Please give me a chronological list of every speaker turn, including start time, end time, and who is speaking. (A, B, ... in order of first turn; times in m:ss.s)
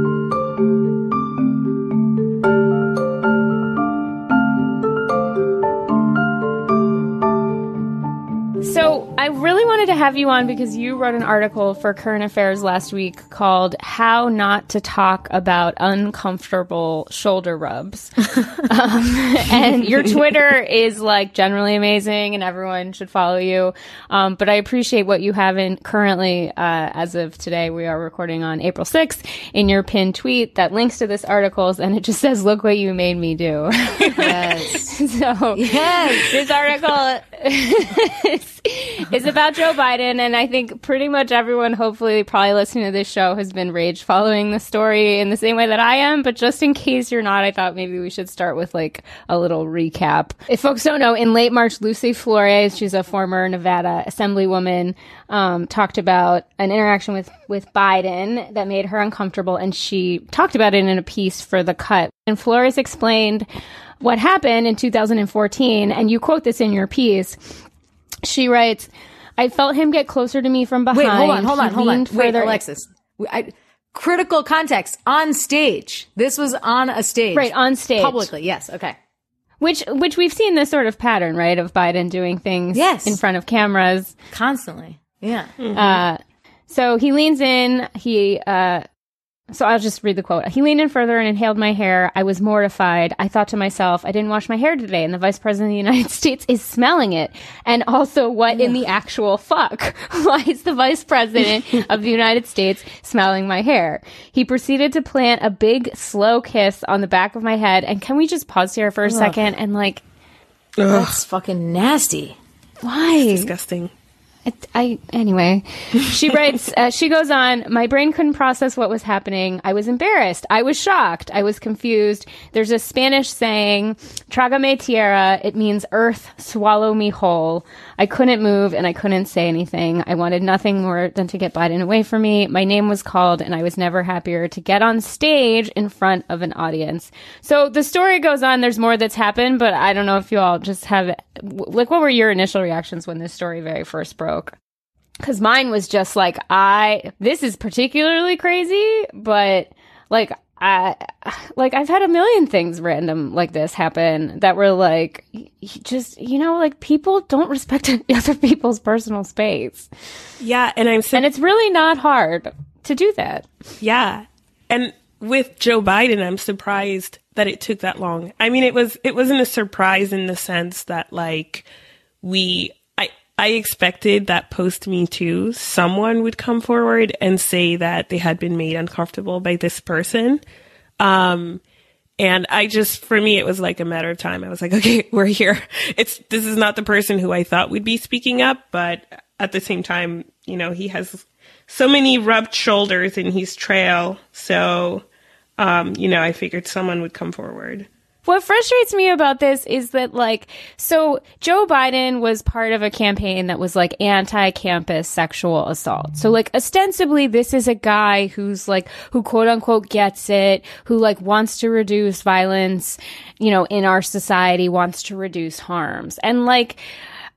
0:08.6-0:18.1 A
0:18.7-1:03.5 A
0:34.1-0:35.0 B
0:35.5-0:36.5 B
1:04.0-1:07.6 A
1:08.2-1:12.6 A
1:10.9-1:19.0 B
1:17.3-1:18.3 A
1:19.6-1:24.2 A
1:22.7-1:23.2 B
1:24.3-1:25.5 B
1:25.6-1:26.0 C
1:25.7-1:28.8 A
1:29.5-1:50.0 A
1:49.0-1:49.4 B
1:50.9-1:52.4 B
1:52.8-1:53.5 A
1:53.2-1:53.9 C
1:54.4-2:24.5 A
2:25.2-2:39.9 A
2:40.4-2:41.3 C
2:41.1-2:43.5 A
2:43.8-2:51.6 C
2:52.2-3:00.4 C
3:01.0-3:01.6 C
3:02.2-3:15.0 C
3:15.6-3:17.9 C
3:18.2-3:36.8 A